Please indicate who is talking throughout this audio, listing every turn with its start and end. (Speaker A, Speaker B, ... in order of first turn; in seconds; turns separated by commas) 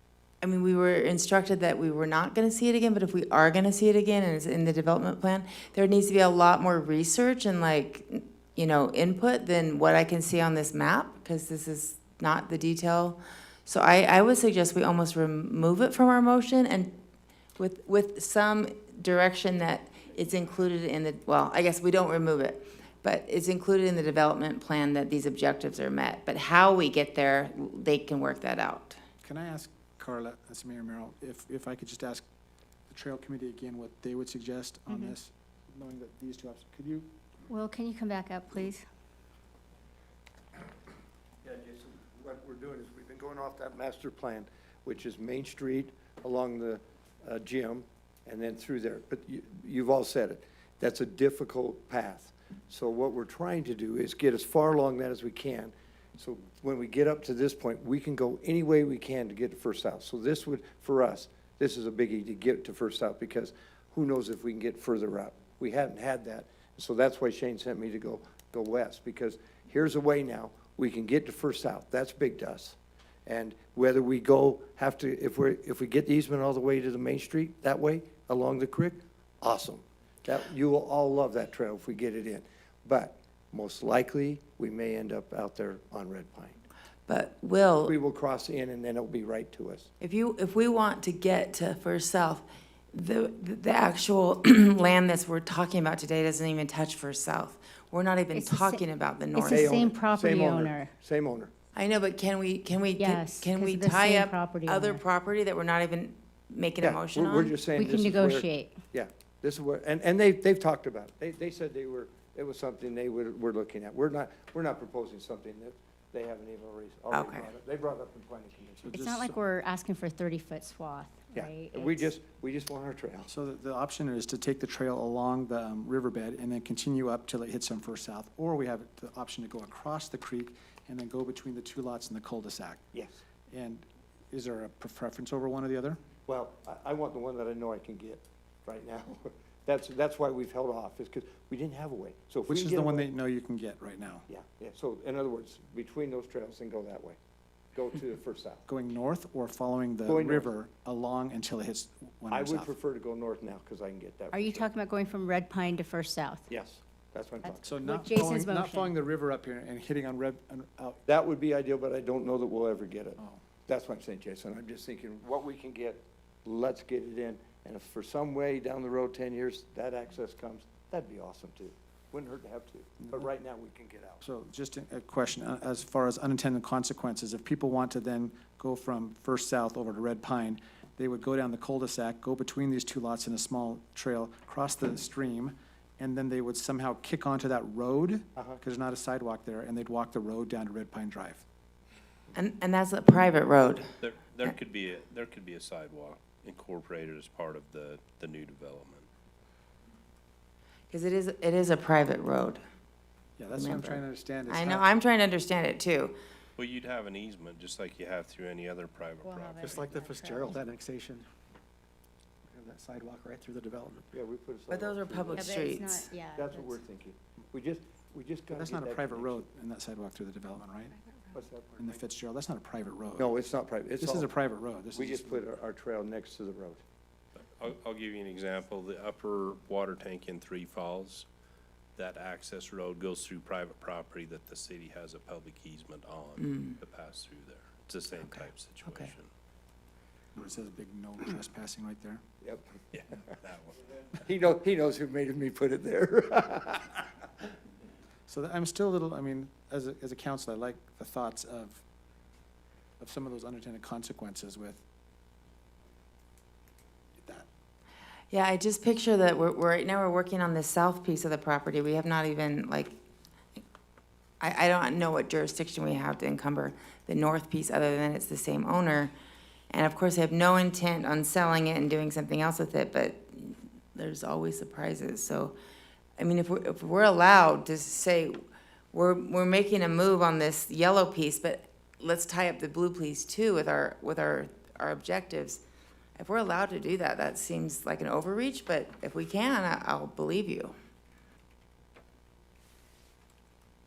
Speaker A: 0.4-16.9, Speaker A: 17.6-29.0, Speaker B: 29.2-32.3, Speaker B: 32.9-37.1, Speaker C: 37.5-38.8, Speaker D: 41.4-86.6, Speaker A: 87.1-87.9, Speaker D: 87.8-89.9, Speaker A: 90.0-99.9, Speaker C: 98.3-100.9, Speaker D: 99.5-101.5, Speaker A: 101.8-107.6, Speaker C: 103.0-105.0, Speaker D: 106.8-119.0, Speaker C: 107.7-108.8, Speaker A: 117.1-117.5, Speaker B: 118.8-119.3, Speaker C: 118.9-122.1, Speaker D: 121.3-123.3, Speaker B: 123.3-132.8, Speaker D: 132.9-133.2, Speaker B: 133.5-136.0, Speaker D: 136.3-143.1, Speaker B: 142.5-144.3, Speaker D: 144.3-147.2, Speaker D: 147.7-148.6, Speaker B: 148.7-152.7, Speaker D: 150.1-150.5, Speaker D: 152.3-154.7, Speaker C: 154.3-156.5, Speaker D: 156.5-157.8, Speaker C: 157.4-158.9, Speaker B: 157.6-161.1, Speaker D: 161.1-174.2, Speaker B: 174.2-191.4, Speaker A: 192.3-193.9, Speaker E: 194.0-199.1, Speaker A: 200.9-202.6, Speaker B: 203.4-204.9, Speaker A: 203.6-206.2, Speaker E: 206.6-209.9, Speaker C: 209.2-210.6, Speaker F: 209.6-211.3, Speaker F: 212.5-214.1, Speaker D: 214.1-215.6, Speaker A: 214.7-216.1, Speaker C: 215.3-216.8, Speaker D: 216.3-219.5, Speaker B: 218.5-221.0, Speaker D: 221.3-221.8, Speaker B: 221.8-223.3, Speaker D: 223.2-224.3, Speaker B: 224.0-225.4, Speaker D: 224.9-226.8, Speaker E: 227.4-231.3, Speaker E: 232.0-239.3, Speaker A: 238.9-239.1, Speaker B: 240.3-242.2, Speaker D: 242.4-242.7, Speaker E: 242.9-243.8, Speaker D: 244.2-247.1, Speaker B: 248.3-251.8, Speaker B: 253.0-254.8, Speaker B: 257.2-257.5, Speaker A: 258.3-262.9, Speaker A: 264.4-269.1, Speaker A: 269.7-275.6, Speaker A: 276.2-278.4, Speaker A: 278.9-285.6, Speaker A: 286.2-290.7